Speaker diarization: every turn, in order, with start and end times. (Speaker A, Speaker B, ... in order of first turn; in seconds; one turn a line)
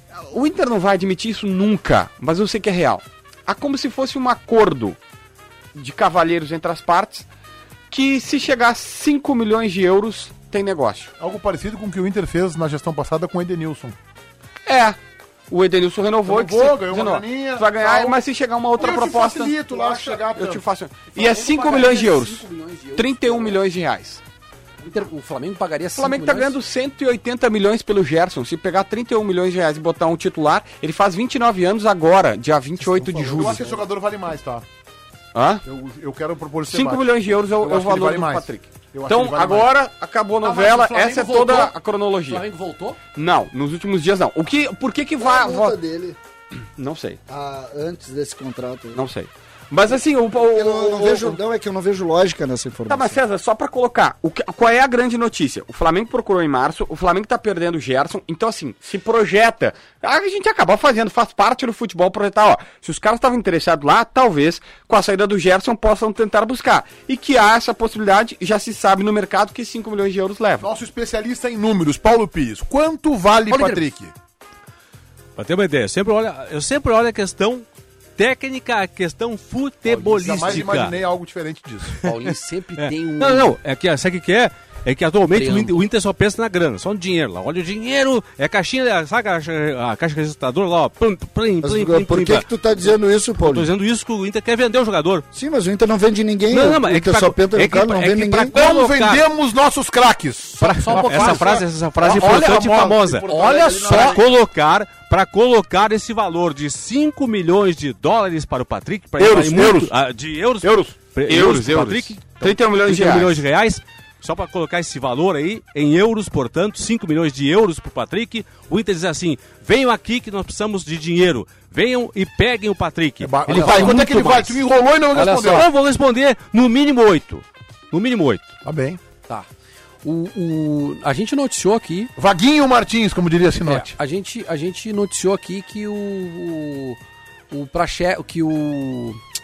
Speaker A: 0.3-5.0
Speaker A: 5.8-7.3
Speaker A: 7.9-11.1
Speaker B: 11.2-14.0
Speaker A: 14.7-15.0
Speaker A: 15.5-22.4
Speaker B: 16.3-18.2
Speaker B: 18.8-20.6
Speaker C: 21.1-23.6
Speaker A: 23.0-24.2
Speaker C: 24.8-26.6
Speaker A: 26.0-33.7
Speaker B: 32.9-34.6
Speaker C: 33.4-33.7
Speaker A: 35.3-35.6
Speaker B: 35.6-39.7
Speaker A: 36.7-42.5
Speaker C: 40.4-41.7
Speaker C: 42.3-43.0
Speaker A: 43.1-45.8
Speaker D: 45.2-46.2
Speaker A: 46.8-47.2
Speaker D: 47.3-49.0
Speaker A: 49.0-51.4
Speaker D: 50.5-53.2
Speaker A: 52.9-70.7
Speaker B: 70.6-74.1
Speaker C: 73.5-73.9
Speaker E: 75.4-77.7
Speaker E: 78.2-81.0
Speaker B: 79.9-82.0
Speaker C: 82.0-83.6
Speaker E: 82.8-92.5
Speaker C: 85.3-85.8
Speaker D: 91.6-93.7
Speaker E: 93.4-95.3
Speaker D: 95.3-98.6
Speaker E: 96.5-99.2
Speaker B: 98.5-104.3
Speaker C: 100.6-102.6
Speaker E: 100.8-124.6
Speaker C: 103.3-104.2
Speaker A: 109.2-109.9
Speaker A: 110.6-113.4
Speaker B: 123.2-125.7
Speaker C: 123.5-124.4
Speaker C: 125.1-125.7
Speaker E: 125.2-128.5
Speaker B: 128.6-129.0
Speaker C: 130.0-132.1
Speaker B: 132.2-133.9
Speaker C: 133.7-137.0
Speaker C: 137.5-139.2